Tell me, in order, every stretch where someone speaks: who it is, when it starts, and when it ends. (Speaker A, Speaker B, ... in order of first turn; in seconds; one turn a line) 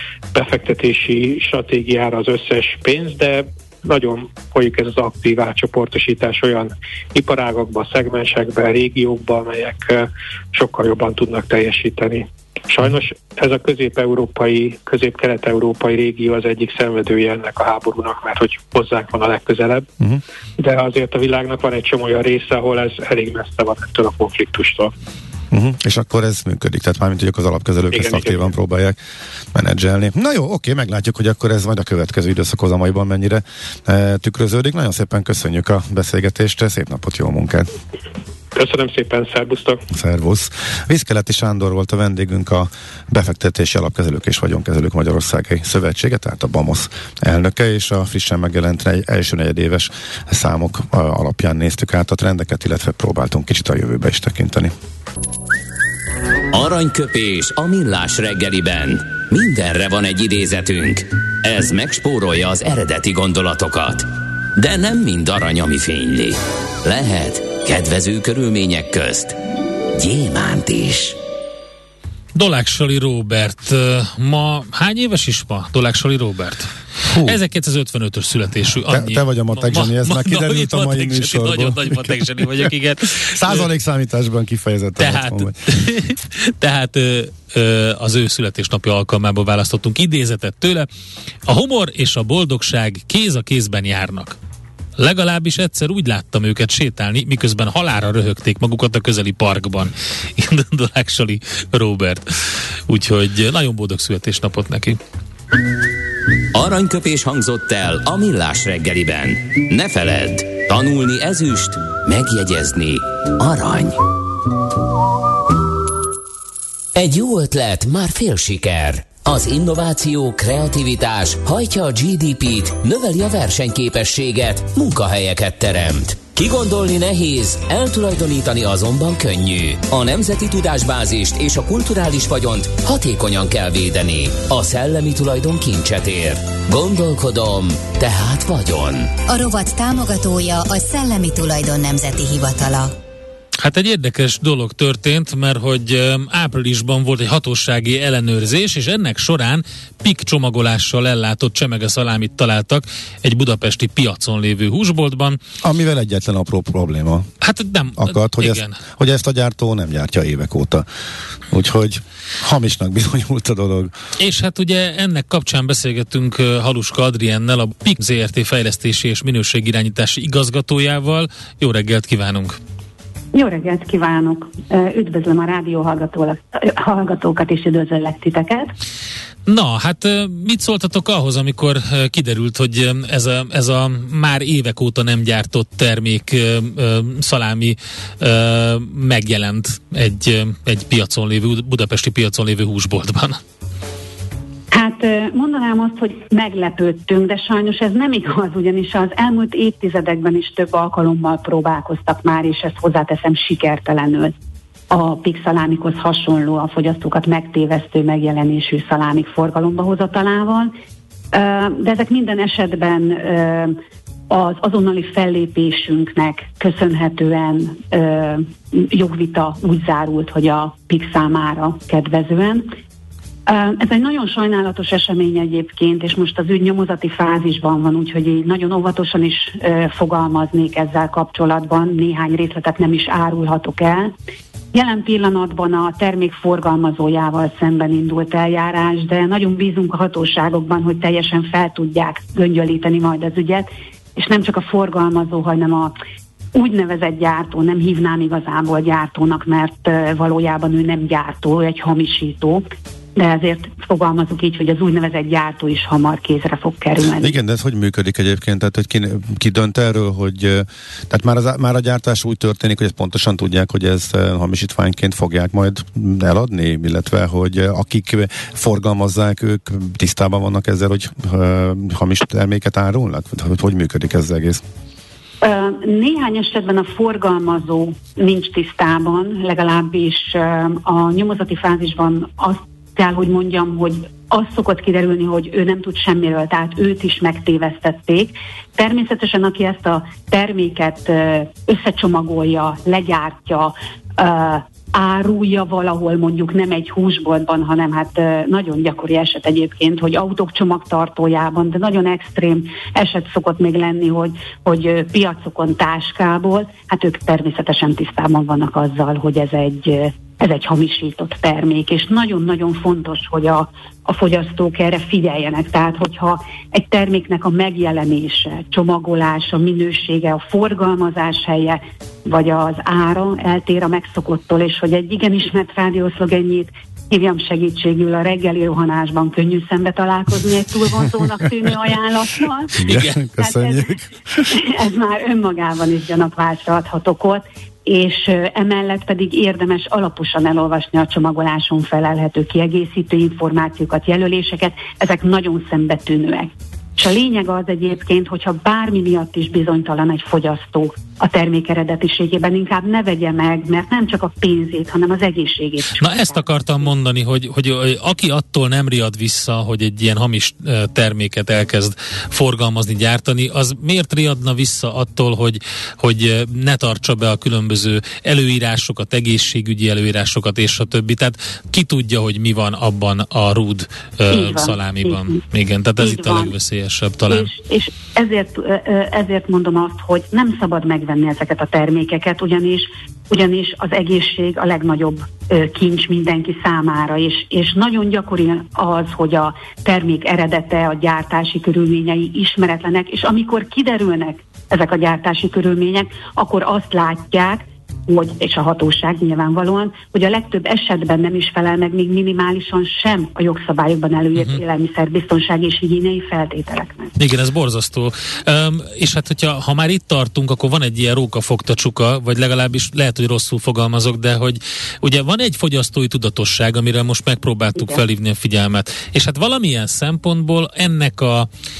Speaker A: 0.3-19.9
Speaker A: 20.6-24.9
Speaker B: 25.5-29.0
Speaker A: 27.9-28.5
Speaker B: 29.5-37.7
Speaker A: 38.5-39.8
Speaker B: 39.9-54.7
Speaker C: 56.5-69.4
Speaker C: 69.9-71.2
Speaker D: 72.3-83.7
Speaker B: 77.0-77.4
Speaker B: 78.8-82.7
Speaker B: 83.2-85.5
Speaker D: 85.0-90.9
Speaker D: 91.5-94.3
Speaker D: 95.0-105.0
Speaker C: 106.5-114.0
Speaker C: 117.0-139.1
Speaker E: 139.3-142.9
Speaker D: 143.6-155.4
Speaker B: 155.6-157.3
Speaker D: 157.4-158.8
Speaker B: 158.0-160.8
Speaker B: 161.5-163.9
Speaker D: 164.2-172.6
Speaker F: 173.3-178.7
Speaker D: 179.4-193.4
Speaker F: 194.7-204.3
Speaker F: 204.9-210.7
Speaker F: 211.3-213.8
Speaker F: 214.3-222.7
Speaker F: 223.5-234.1
Speaker F: 234.7-245.9
Speaker F: 246.5-257.3
Speaker B: 257.2-274.6
Speaker F: 275.4-332.8
Speaker B: 332.8-334.5
Speaker D: 332.8-333.1
Speaker F: 333.4-333.9
Speaker F: 334.4-356.4
Speaker D: 356.0-377.5
Speaker F: 374.3-375.4
Speaker F: 376.0-376.5
Speaker F: 377.3-407.1
Speaker D: 407.2-421.5